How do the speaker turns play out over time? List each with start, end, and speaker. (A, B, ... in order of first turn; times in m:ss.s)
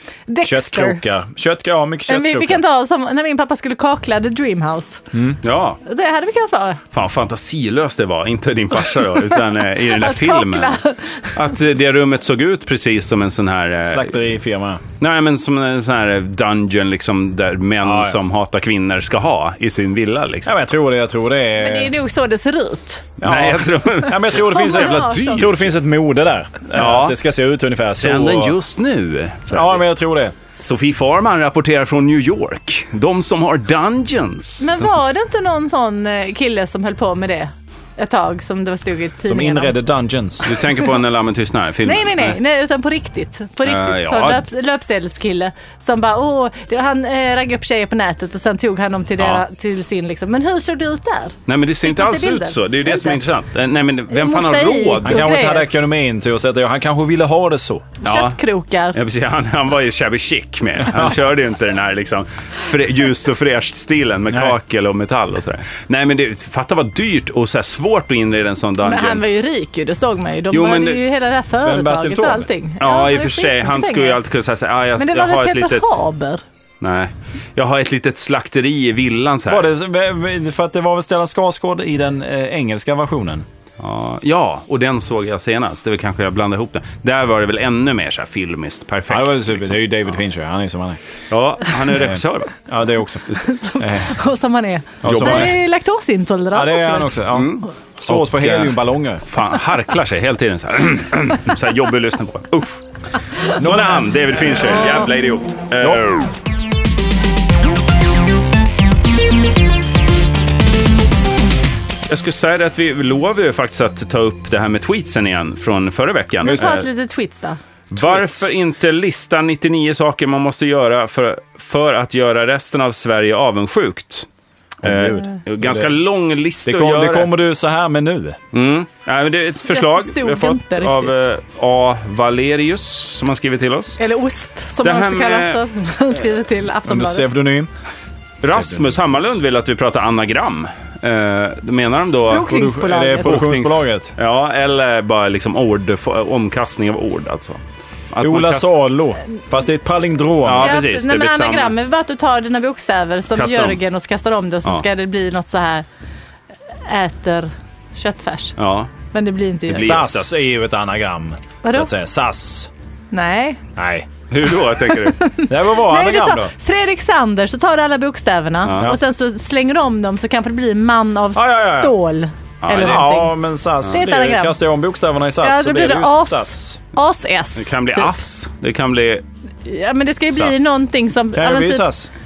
0:00.3-0:01.0 A
0:00.4-0:02.6 B
0:02.1-0:05.0 A
0:05.1-0:05.4 B
0:05.4-0:05.8 C
0:05.8-0:06.8 A
0:06.9-0:10.8 C
0:09.2-0:11.5 A
0:11.3-0:14.2 C
0:13.9-0:14.8 B
0:15.0-0:20.5 C
0:17.8-0:18.2 B
0:20.4-0:21.9 B
0:21.6-0:23.1 A
0:23.2-0:25.5 C
0:23.2-0:28.6 B
0:24.3-0:25.5 A
0:26.7-0:27.2 C
0:28.0-0:29.8 C
0:29.5-0:30.4 B
0:30.6-0:34.8 C
0:34.6-0:39.8 A
0:39.2-0:40.5 B
0:40.4-0:42.4 C
0:41.8-0:53.2 A
0:43.6-0:44.4 C
0:49.2-0:49.4 C
0:51.5-0:55.3 C
0:54.1-0:55.7 A
0:55.0-0:57.9 B
0:58.0-0:59.0 A
0:58.0-0:58.4 C
0:58.9-1:09.2 C
1:08.8-1:14.2 A
1:10.5-1:11.0 C
1:11.6-1:12.5 B
1:12.8-1:16.0 C
1:15.0-1:16.4 A
1:16.8-1:19.7 C
1:19.5-1:23.4 B
1:23.8-1:29.8 C
1:29.1-1:31.0 B
1:31.3-1:32.5 C
1:31.9-1:33.2 B
1:33.3-1:37.2 A
1:33.8-1:34.1 B
1:35.0-1:35.6 B
1:35.0-1:35.6 C
1:36.5-1:39.2 B
1:37.3-1:42.8 C
1:43.4-1:46.3 C
1:43.6-1:44.8 B
1:44.8-1:45.1 A
1:45.8-1:46.2 B
1:52.1-1:56.9 C
1:56.4-1:57.6 A
1:56.4-1:56.8 B
1:57.9-2:04.3 C
1:57.9-1:58.5 B
2:04.8-2:05.9 B
2:04.8-2:07.3 C
2:06.6-2:08.4 B
2:08.5-2:14.0 C
2:09.6-2:11.2 A
2:14.0-2:17.3 A
2:14.8-2:15.6 C
2:16.9-2:17.7 B
2:18.4-2:27.6 C
2:18.5-2:19.0 B
2:22.3-2:23.5 A
2:22.4-2:24.1 B
2:28.1-2:28.7 C
2:28.2-2:30.8 B
2:30.4-2:31.7 C
2:30.6-2:35.8 A
2:33.4-2:33.8 C
2:36.9-2:38.6 A
2:38.6-2:38.9 C
2:39.1-2:40.0 A
2:39.7-2:40.4 C
2:39.7-2:42.7 B
2:41.6-2:41.9 A
2:43.1-2:43.6 A
2:43.8-2:44.1 B
2:44.3-2:45.2 C
2:44.9-2:54.6 A
2:45.5-2:46.5 B
2:48.6-2:49.0 C
2:51.4-2:51.9 B
2:52.6-2:53.1 C
2:52.7-2:56.8 B
2:55.4-2:58.2 A
2:57.6-2:59.2 C
2:59.6-3:01.9 A
3:00.3-3:00.7 C
3:01.3-3:02.1 B